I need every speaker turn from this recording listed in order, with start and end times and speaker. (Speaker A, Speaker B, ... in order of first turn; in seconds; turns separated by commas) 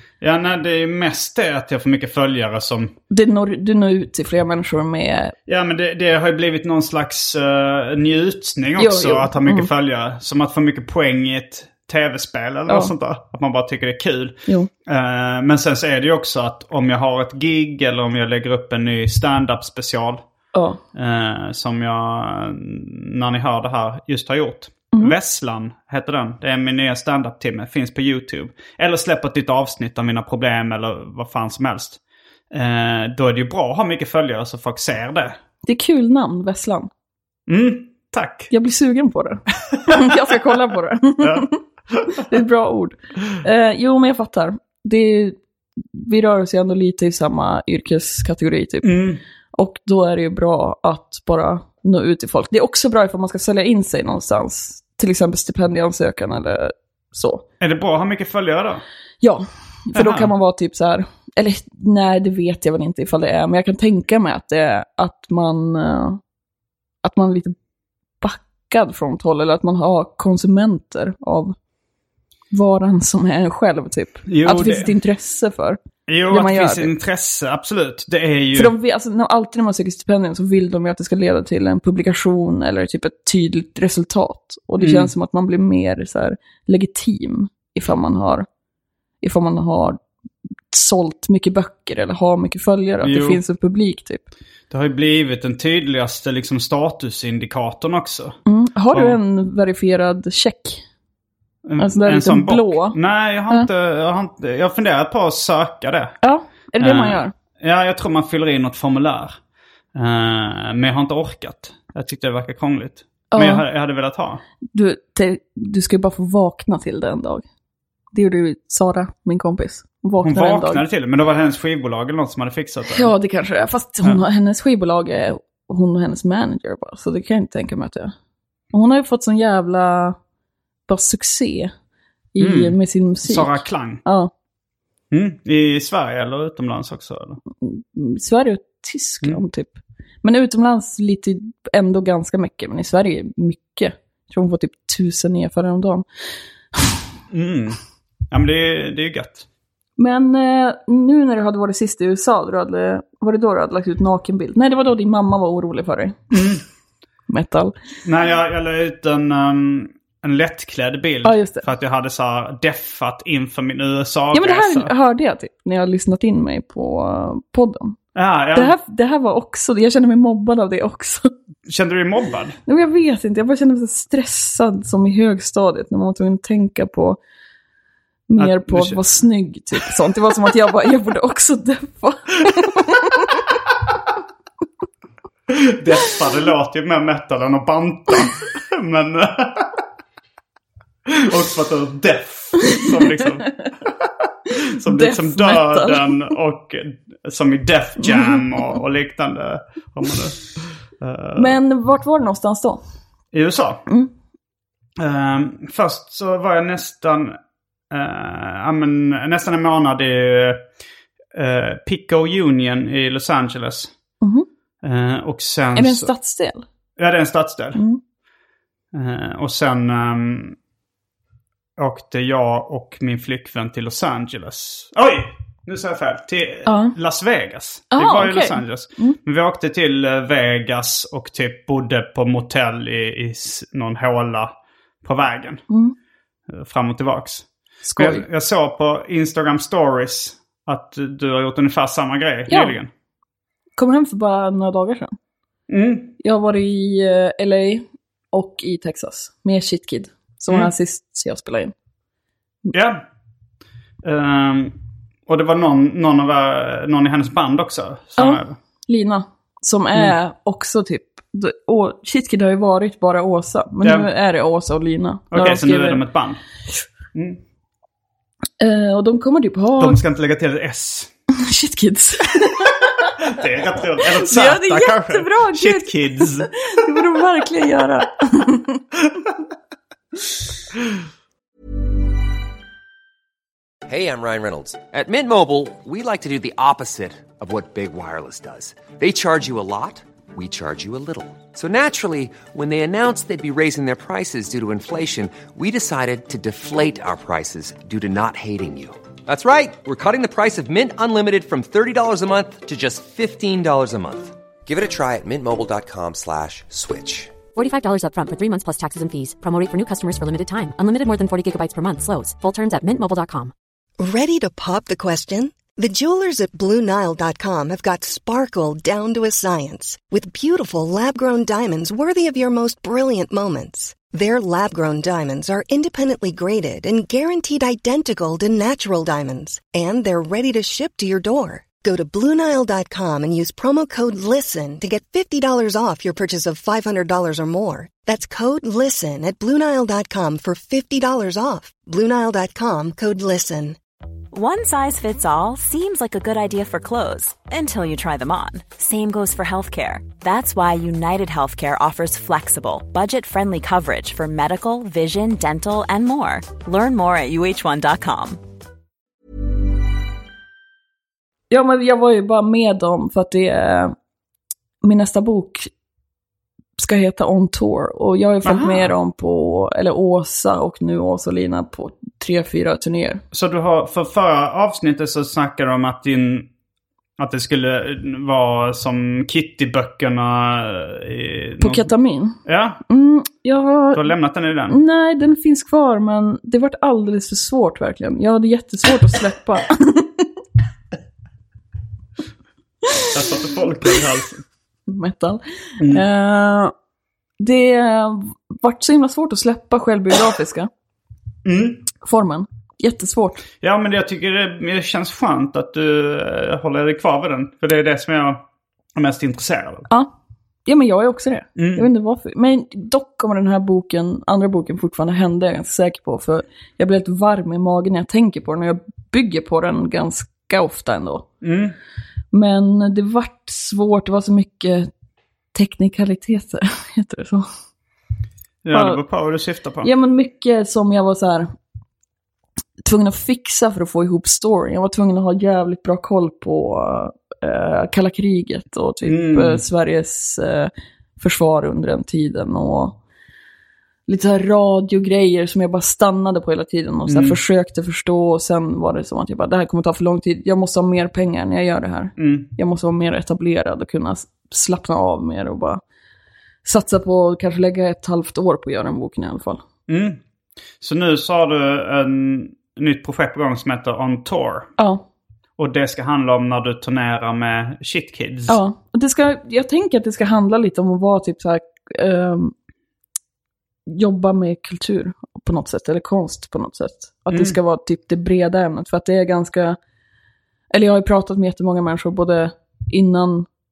Speaker A: 0.2-2.9, Speaker B: 3.1-5.3, Speaker A: 5.5-20.2, Speaker B: 8.8-9.7, Speaker B: 12.7-12.9, Speaker B: 20.5-20.8, Speaker A: 20.9-32.0, Speaker A: 32.5-35.4, Speaker B: 35.6-36.9, Speaker A: 37.5-38.5, Speaker B: 38.5-41.6, Speaker A: 39.9-40.2, Speaker A: 41.2-42.2, Speaker B: 42.1-45.4, Speaker B: 45.9-57.5, Speaker A: 48.8-49.2, Speaker A: 57.6-58.8, Speaker B: 59.2-66.2, Speaker A: 59.9-60.3, Speaker B: 67.0-67.5, Speaker B: 68.2-71.5, Speaker B: 72.5-76.9, Speaker A: 74.3-74.9, Speaker A: 76.1-78.7, Speaker B: 78.5-88.5, Speaker A: 84.8-85.1, Speaker B: 89.2-90.0, Speaker B: 90.7-94.2, Speaker A: 93.0-93.4, Speaker A: 94.7-98.4, Speaker B: 98.5-100.8, Speaker A: 98.9-99.2, Speaker A: 101.7-106.2, Speaker B: 101.8-103.0, Speaker B: 106.2-107.3, Speaker A: 106.8-109.4, Speaker A: 109.9-114.4, Speaker B: 113.3-113.7, Speaker B: 114.7-117.5, Speaker B: 118.1-120.8, Speaker A: 120.2-123.1, Speaker B: 122.9-128.1, Speaker B: 128.7-130.2, Speaker B: 130.9-131.7, Speaker B: 132.3-134.3, Speaker A: 132.4-134.0, Speaker A: 135.1-137.4, Speaker B: 137.6-146.1, Speaker A: 147.3-147.8, Speaker A: 148.3-149.5, Speaker B: 150.0-156.3, Speaker A: 156.3-156.6, Speaker B: 157.3-157.7, Speaker A: 158.0-164.9, Speaker B: 161.2-161.6, Speaker B: 164.3-168.0, Speaker A: 168.2-168.8, Speaker B: 168.6-171.3, Speaker A: 171.7-172.6, Speaker B: 172.7-177.2, Speaker B: 178.3-183.3, Speaker A: 178.4-179.2, Speaker A: 185.5-189.7, Speaker A: 191.1-201.6, Speaker B: 194.8-196.3, Speaker B: 201.4-202.8, Speaker A: 203.3-203.8, Speaker A: 205.0-207.4, Speaker A: 207.9-210.7, Speaker A: 211.3-213.9, Speaker B: 214.2-214.5, Speaker A: 214.8-216.1, Speaker B: 215.8-216.7, Speaker A: 217.0-217.8, Speaker B: 217.8-218.0, Speaker A: 218.9-220.6, Speaker A: 221.8-235.6, Speaker B: 226.7-227.0, Speaker B: 227.9-229.2, Speaker B: 235.7-235.9, Speaker A: 236.5-242.9, Speaker B: 237.9-238.2, Speaker B: 242.5-242.8, Speaker B: 243.8-245.2, Speaker A: 245.7-246.1, Speaker B: 246.2-251.7, Speaker A: 252.7-253.0, Speaker A: 254.0-254.8, Speaker A: 255.3-258.6, Speaker B: 258.2-266.0, Speaker A: 263.8-264.1, Speaker A: 265.3-266.4, Speaker A: 267.1-267.4, Speaker B: 268.6-270.0, Speaker A: 269.8-271.1, Speaker B: 271.3-273.4, Speaker A: 273.2-276.5, Speaker B: 274.1-278.8, Speaker C: 283.9-307.4, Speaker D: 307.5-313.5, Speaker E: 314.0-343.8, Speaker F: 344.3-358.4, Speaker B: 361.5-363.9, Speaker B: 364.8-365.7, Speaker B: 366.8-373.2, Speaker A: 368.4-368.9, Speaker A: 373.3-376.5, Speaker A: 377.2-381.9, Speaker B: 381.6-384.1, Speaker A: 382.4-382.8, Speaker A: 383.9-384.8, Speaker B: 384.7-390.3, Speaker A: 393.1-394.4, Speaker B: 394.9-396.7, Speaker A: 395.8-396.1, Speaker B: 397.4-400.7, Speaker A: 401.4-401.9, Speaker B: 402.0-403.4, Speaker A: 403.6-408.4, Speaker A: 408.9-409.9, Speaker B: 410.7-421.3, Speaker A: 411.6-411.9, Speaker A: 421.4-421.8, Speaker B: 422.3-424.9, Speaker B: 425.5-427.5, Speaker A: 428.6-429.9, Speaker B: 428.7-429.0, Speaker B: 429.8-431.5, Speaker B: 432.8-443.0, Speaker A: 439.0-439.6, Speaker B: 444.1-455.8, Speaker A: 447.1-447.4, Speaker A: 452.2-452.5, Speaker B: 456.6-459.6, Speaker A: 459.9-460.2, Speaker A: 460.8-464.7, Speaker B: 464.8-465.1, Speaker A: 465.6-468.6, Speaker B: 468.5-472.5, Speaker B: 473.9-479.8, Speaker A: 477.3-477.6, Speaker B: 480.7-483.5